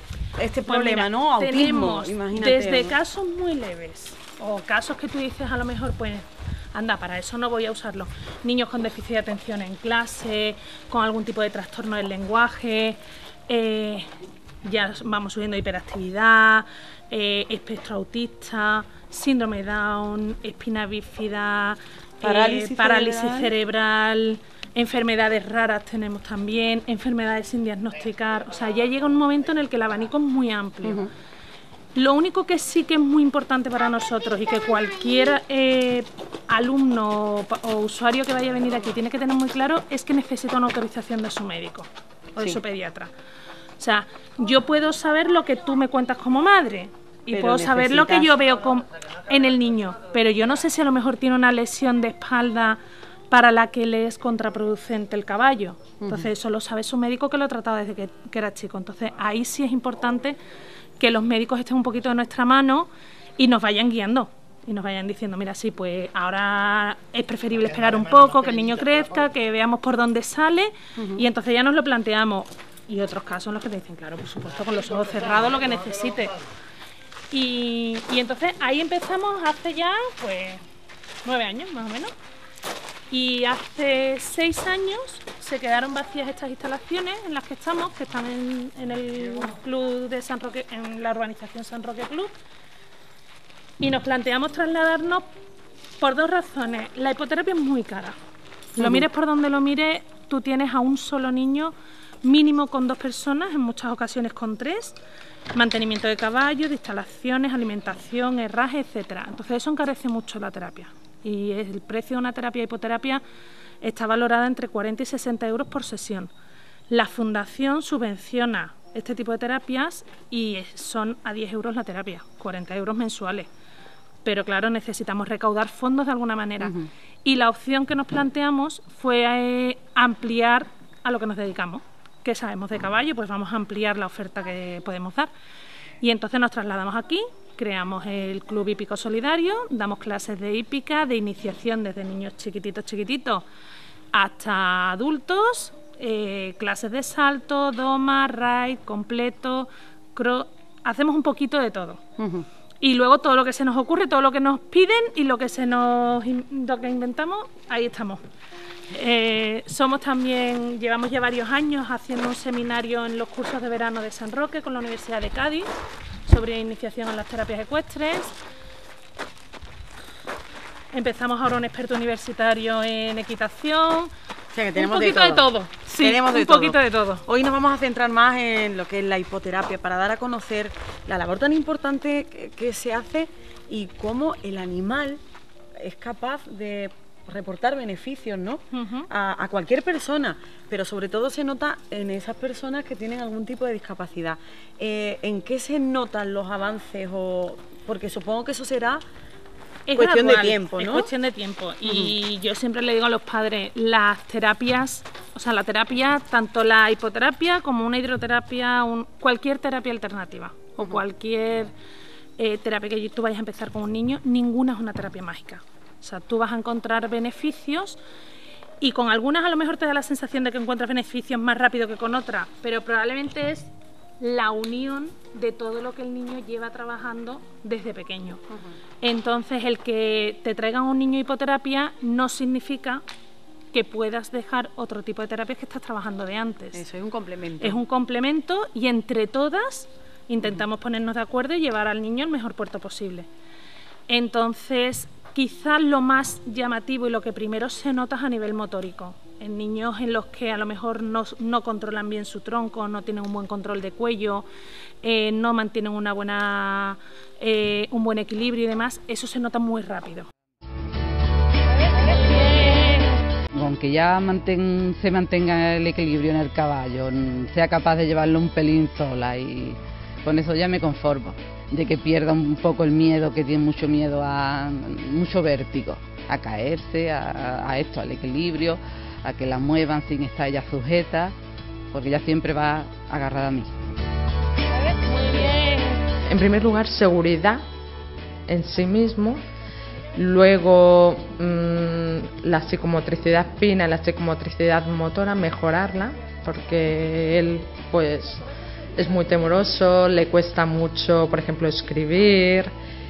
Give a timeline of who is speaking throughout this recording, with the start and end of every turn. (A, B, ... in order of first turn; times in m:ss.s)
0:00.4-0:03.0 A
0:00.6-0:14.1 B
0:14.6-0:31.0 B
0:22.2-0:23.5 A
0:30.8-0:31.1 A
0:32.0-0:43.1 B
0:43.8-0:52.8 B
0:47.3-0:48.3 A
0:53.3-1:00.4 B
0:56.0-0:56.3 A
1:01.0-1:16.4 B
1:11.0-1:11.2 A
1:17.3-1:20.6 B
1:21.2-1:22.1 B
1:23.1-1:32.3 B
1:33.8-1:35.3 B
1:36.0-1:38.2 B
1:38.8-1:39.0 A
1:38.8-1:45.0 B
1:45.5-1:53.2 B
1:53.8-1:56.3 B
1:56.9-2:03.5 B
2:04.2-2:06.7 B
2:06.6-2:06.9 A
2:07.2-2:15.3 B
2:16.0-2:23.4 B
2:24.1-2:32.0 B
2:32.2-2:32.4 A
2:32.8-2:38.2 B
2:38.9-2:45.7 B
2:46.2-2:48.3 B
2:50.9-2:54.1 B
2:54.5-2:55.4 A
2:54.7-2:57.2 B
2:56.0-3:05.2 A
3:05.8-3:19.0 A
3:08.7-3:09.1 B
3:19.9-3:31.7 B
3:19.9-3:21.1 A
3:21.8-3:22.1 A
3:32.4-3:38.0 B
3:38.8-3:48.4 B
3:49.0-3:53.0 B
3:53.7-3:56.8 B
3:56.7-3:57.8 A
3:57.6-4:03.3 B
4:04.1-4:14.4 B
4:15.0-4:20.3 B
4:23.5-4:41.3 C
4:41.9-4:43.7 C
4:46.2-4:47.6 D
4:48.5-4:49.4 D
4:50.2-4:58.4 D
4:59.0-5:02.7 D